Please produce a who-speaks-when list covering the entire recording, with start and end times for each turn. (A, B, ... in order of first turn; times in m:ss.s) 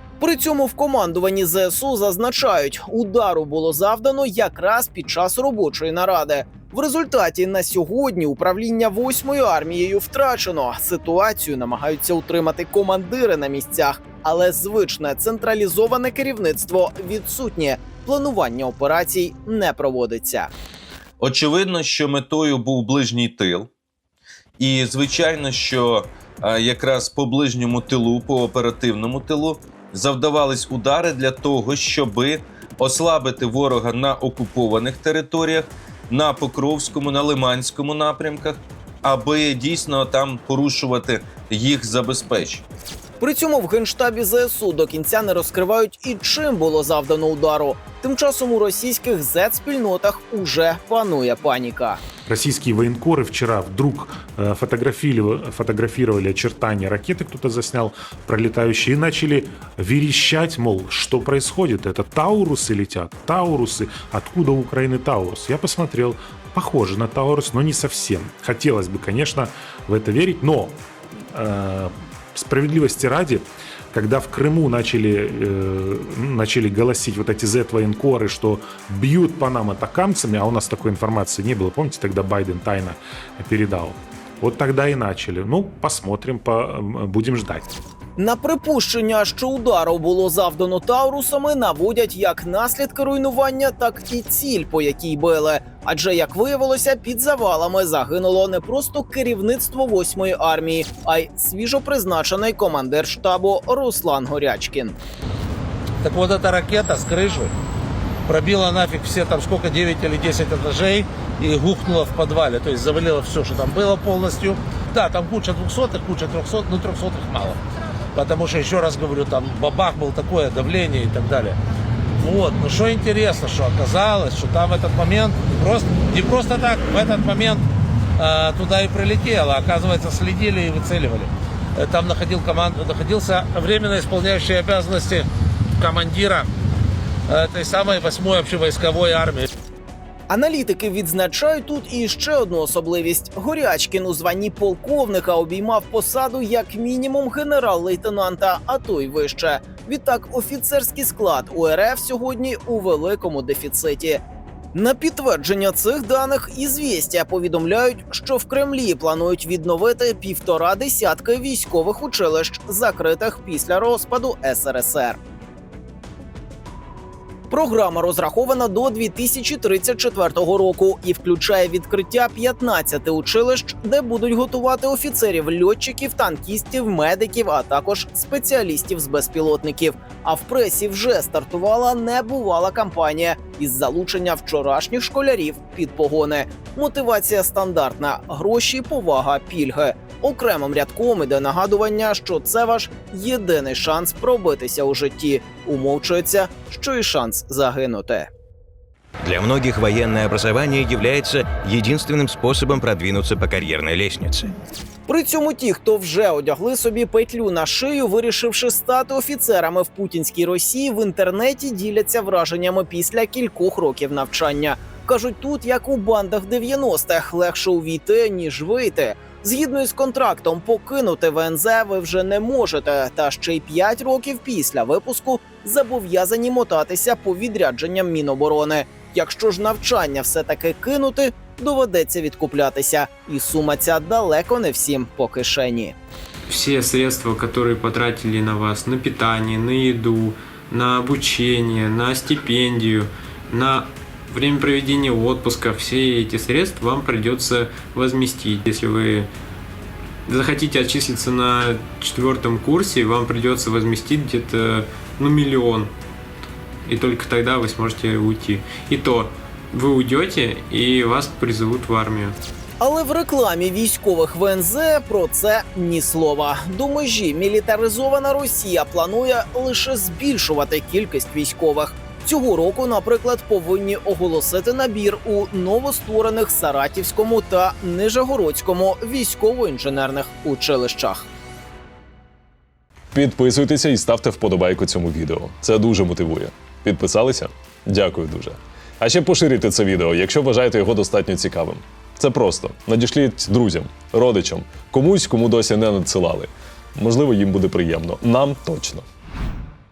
0:00.2-0:20.5 A
0:21.2-0:23.7 B
0:24.6-0:42.6 B
0:43.2-0:52.0 A
0:52.3-1:27.7 C
1:28.2-1:45.0 A
1:46.0-1:47.5 D
1:48.3-1:57.6 D
1:58.2-2:01.6 D
2:02.2-2:07.6 D
2:08.2-2:16.5 D
2:17.3-2:19.5 D
2:20.3-2:34.2 A
2:34.7-2:45.2 A
2:47.5-3:18.3 A
3:19.2-3:24.5 E
3:25.1-3:56.0 A
3:56.5-4:09.3 F
4:10.3-4:15.9 F
4:16.9-4:22.4 F
4:22.8-4:41.3 A
4:43.1-4:59.0 G